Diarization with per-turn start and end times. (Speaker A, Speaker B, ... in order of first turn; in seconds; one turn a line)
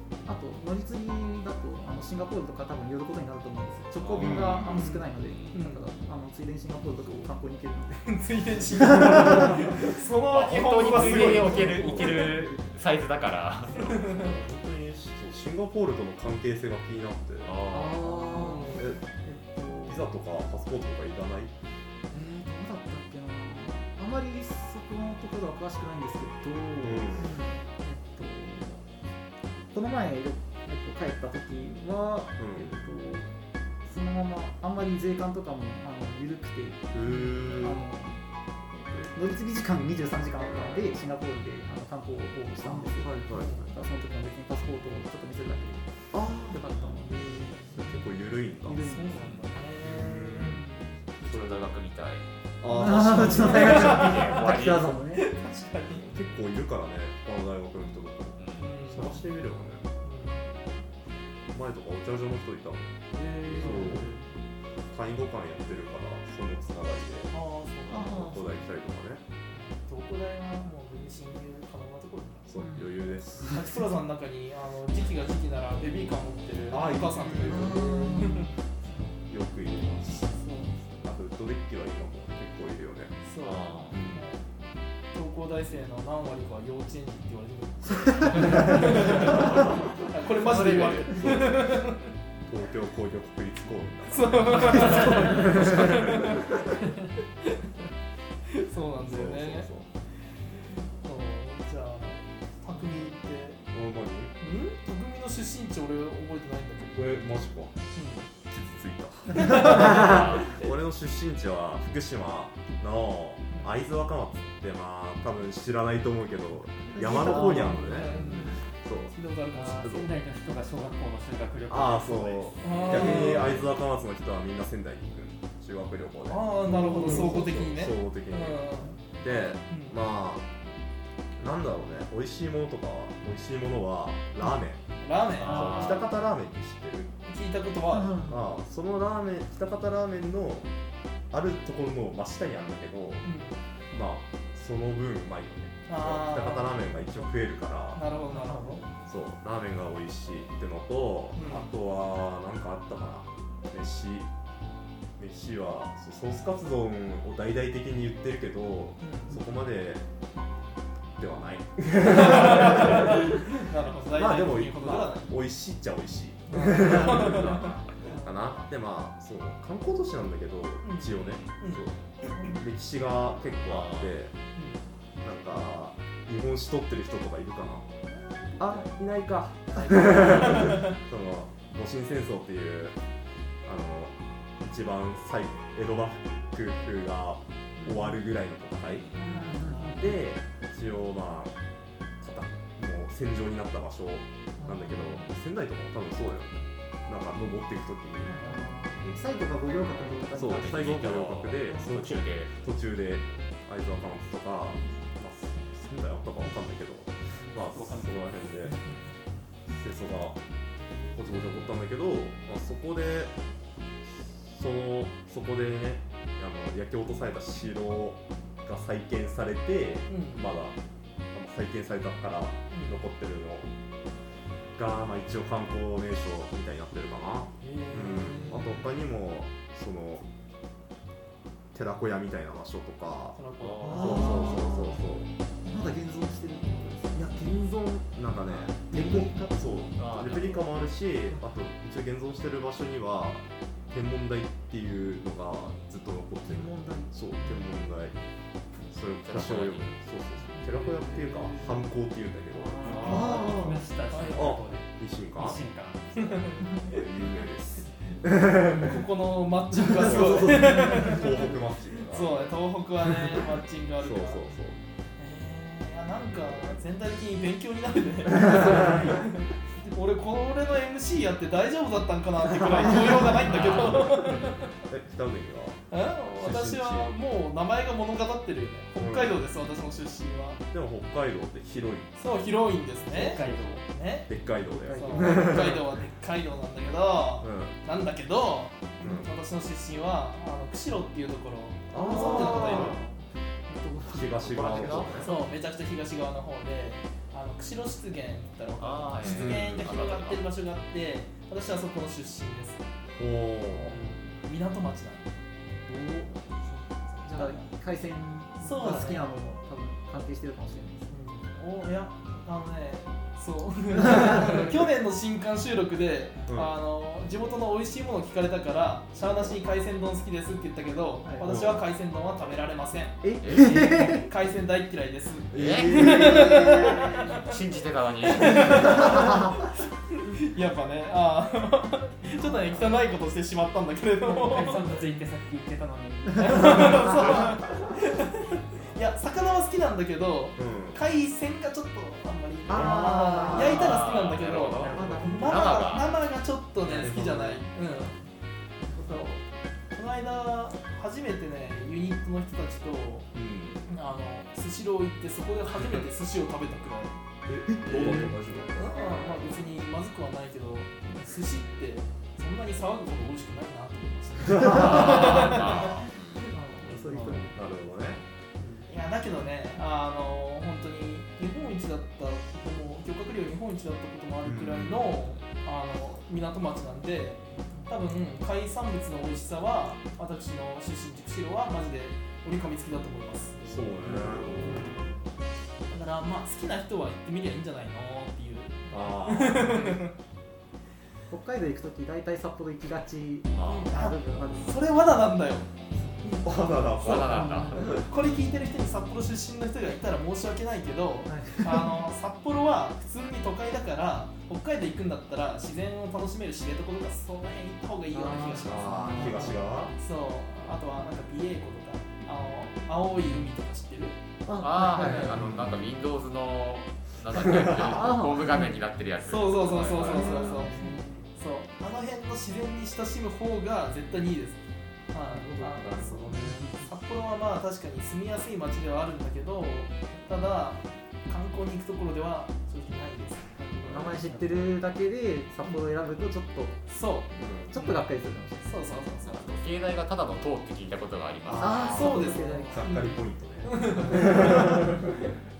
Speaker A: 0.3-8.2
Speaker B: 4.0-5.6
Speaker C: 4.1-5.0
Speaker D: 4.7-5.9
Speaker D: 8.0-12.5
Speaker A: 8.7-9.7
Speaker B: 10.3-14.0
Speaker A: 11.3-12.5
Speaker C: 13.8-17.6
Speaker D: 13.8-14.3
Speaker B: 17.4-18.6
Speaker A: 17.7-20.1
Speaker D: 18.3-18.9
Speaker C: 18.7-19.0
Speaker C: 19.9-21.5
Speaker A: 22.1-28.9
Speaker C: 26.8-27.4
Speaker D: 27.2-27.6
Speaker A: 29.7-33.3
Speaker C: 32.4-32.9
Speaker A: 33.8-38.2
Speaker C: 36.9-37.9
Speaker C: 38.8-39.1
Speaker A: 39.1-48.1
Speaker C: 42.5-43.7
Speaker C: 46.1-46.7
Speaker C: 47.7-48.9
Speaker A: 48.6-49.3
Speaker D: 48.8-50.9
Speaker B: 49.1-49.4
Speaker C: 49.8-50.6
Speaker B: 51.2-52.2
Speaker C: 51.2-51.6
Speaker C: 52.6-53.8
Speaker A: 52.6-55.3
Speaker B: 53.1-55.0
Speaker D: 53.6-54.5
Speaker D: 55.1-56.1
Speaker C: 55.9-59.9
Speaker B: 58.4-58.7
Speaker D: 58.6-59.2
Speaker D: 60.0-60.5
Speaker C: 61.5-64.2
Speaker D: 63.1-64.2
Speaker A: 63.6-64.2
Speaker C: 64.9-69.2
Speaker D: 67.3-68.3
Speaker A: 67.9-68.5
Speaker D: 69.5-72.8
Speaker C: 72.5-73.6
Speaker D: 73.4-78.5
Speaker C: 76.7-78.2
Speaker A: 77.5-78.5
Speaker C: 79.3-80.3
Speaker D: 80.2-80.8
Speaker C: 81.0-83.2
Speaker D: 83.2-84.5
Speaker B: 83.4-83.9
Speaker C: 83.9-84.3
Speaker D: 85.1-92.1
Speaker B: 90.5-91.1
Speaker C: 90.9-91.9
Speaker C: 92.5-96.6
Speaker D: 94.1-96.5
Speaker D: 98.5-99.7
Speaker C: 99.0-99.9
Speaker D: 101.0-103.6
Speaker C: 103.7-104.4
Speaker D: 104.4-107.3
Speaker C: 106.9-119.2
Speaker D: 108.0-108.3
Speaker D: 109.3-110.7
Speaker B: 109.9-110.2
Speaker A: 116.9-118.0
Speaker D: 117.0-118.6
Speaker D: 119.1-120.0
Speaker E: 119.5-123.7
Speaker C: 119.8-120.1
Speaker C: 121.7-130.5
Speaker D: 122.6-123.6
Speaker D: 126.2-130.0
Speaker A: 126.8-127.3
Speaker C: 131.4-134.8
Speaker D: 135.0-136.1
Speaker C: 135.4-137.1
Speaker B: 135.4-136.1
Speaker D: 137.2-138.2
Speaker A: 138.0-138.4
Speaker C: 138.2-140.7
Speaker C: 141.3-143.3
Speaker D: 143.2-143.6
Speaker C: 143.9-148.1
Speaker D: 145.9-147.3
Speaker D: 147.9-148.9
Speaker A: 148.3-148.8
Speaker C: 149.0-154.3
Speaker D: 151.3-151.7
Speaker C: 155.2-160.0
Speaker D: 159.0-159.4
Speaker C: 161.2-174.3
Speaker D: 162.1-165.3
Speaker D: 166.5-168.6
Speaker D: 170.8-171.9
Speaker B: 171.2-171.5
Speaker B: 173.7-174.1
Speaker D: 174.6-174.8
Speaker C: 175.2-177.9
Speaker C: 178.6-183.0
Speaker D: 179.7-181.0
Speaker C: 183.7-189.3
Speaker A: 189.2-190.2
Speaker C: 189.8-191.5
Speaker C: 192.2-198.4
Speaker D: 194.6-195.3
Speaker D: 198.3-198.7
Speaker A: 198.4-201.0
Speaker B: 200.3-202.5
Speaker C: 200.3-208.8
Speaker E: 207.7-208.3
Speaker D: 208.7-209.1
Speaker C: 209.7-210.4
Speaker C: 211.1-213.3
Speaker C: 214.3-220.8
Speaker D: 220.1-220.5
Speaker C: 221.3-223.7
Speaker D: 222.7-223.1
Speaker C: 224.8-230.2
Speaker D: 227.6-228.8
Speaker C: 231.7-235.3
Speaker D: 233.3-234.8
Speaker B: 233.6-234.2
Speaker A: 233.9-234.9
Speaker A: 235.6-237.3
Speaker C: 237.2-248.2
Speaker A: 238.9-239.7
Speaker B: 240.0-240.7
Speaker A: 246.4-247.8
Speaker C: 248.9-253.8
Speaker B: 249.2-250.0
Speaker D: 250.7-251.7
Speaker E: 252.8-256.5
Speaker B: 252.8-253.4
Speaker A: 253.0-253.5
Speaker D: 254.1-254.6
Speaker C: 254.3-255.6
Speaker D: 256.2-257.0
Speaker C: 256.8-259.0
Speaker D: 258.6-264.5
Speaker A: 259.9-261.3
Speaker C: 259.9-262.6
Speaker C: 264.0-264.8
Speaker D: 265.2-274.8
Speaker B: 273.5-274.1
Speaker C: 273.6-273.8
Speaker C: 274.8-277.1
Speaker D: 275.9-280.6
Speaker C: 279.0-279.4
Speaker C: 280.7-282.2
Speaker D: 282.2-284.3
Speaker C: 283.1-283.5
Speaker E: 283.1-283.9
Speaker C: 284.3-285.8
Speaker A: 284.7-285.8
Speaker D: 284.9-293.1
Speaker C: 287.4-287.8
Speaker C: 289.0-289.3
Speaker C: 291.9-293.0
Speaker A: 292.0-292.9
Speaker A: 293.7-295.1
Speaker C: 294.1-295.3
Speaker B: 294.5-295.3
Speaker D: 294.9-302.8
Speaker B: 298.8-300.4
Speaker C: 299.2-299.9
Speaker C: 303.1-304.0
Speaker D: 303.8-305.4
Speaker A: 305.9-306.5
Speaker A: 307.2-311.1
Speaker D: 307.3-307.6
Speaker D: 308.6-309.3
Speaker D: 311.1-327.5
Speaker C: 316.5-316.7
Speaker C: 319.2-319.5
Speaker C: 321.4-321.9
Speaker A: 323.2-324.3
Speaker C: 323.3-323.6
Speaker B: 323.4-324.0
Speaker C: 325.5-327.1
Speaker B: 325.5-329.2
Speaker D: 328.3-334.8
Speaker E: 334.2-337.2
Speaker D: 336.4-348.2
Speaker C: 340.6-341.0
Speaker C: 342.7-344.1
Speaker A: 342.7-343.6
Speaker B: 343.4-346.2
Speaker C: 344.8-345.3
Speaker E: 344.8-345.6
Speaker C: 346.9-347.7
Speaker D: 348.9-349.4
Speaker D: 349.9-353.3
Speaker C: 353.3-353.9
Speaker D: 353.9-357.2
Speaker C: 357.5-359.7
Speaker D: 357.9-367.3
Speaker A: 358.0-358.3
Speaker B: 364.6-366.5
Speaker A: 364.9-365.2
Speaker A: 366.5-367.6
Speaker C: 366.8-368.2
Speaker D: 368.7-385.1
Speaker C: 374.4-375.2
Speaker C: 383.7-385.0
Speaker D: 385.9-390.1
Speaker C: 388.9-390.0
Speaker A: 391.3-394.9
Speaker B: 393.6-393.9
Speaker D: 393.7-396.6
Speaker C: 396.4-398.1
Speaker B: 397.0-398.0
Speaker A: 397.2-397.8
Speaker D: 397.8-414.2
Speaker A: 401.3-402.0
Speaker A: 408.1-409.7
Speaker C: 408.6-409.9
Speaker A: 414.5-415.4
Speaker B: 414.6-420.3
Speaker C: 415.1-415.9
Speaker C: 417.4-418.1
Speaker A: 417.7-418.8
Speaker D: 419.2-424.6
Speaker C: 419.6-420.7
Speaker A: 420.0-421.2
Speaker D: 425.1-433.6
Speaker A: 425.2-426.9
Speaker C: 425.7-426.8
Speaker A: 433.6-436.8
Speaker C: 433.8-434.7
Speaker D: 436.9-438.1
Speaker C: 437.4-437.8
Speaker A: 437.7-438.8
Speaker D: 438.6-439.6
Speaker B: 439.2-442.1
Speaker C: 441.5-445.1
Speaker A: 441.6-443.1
Speaker D: 441.8-445.2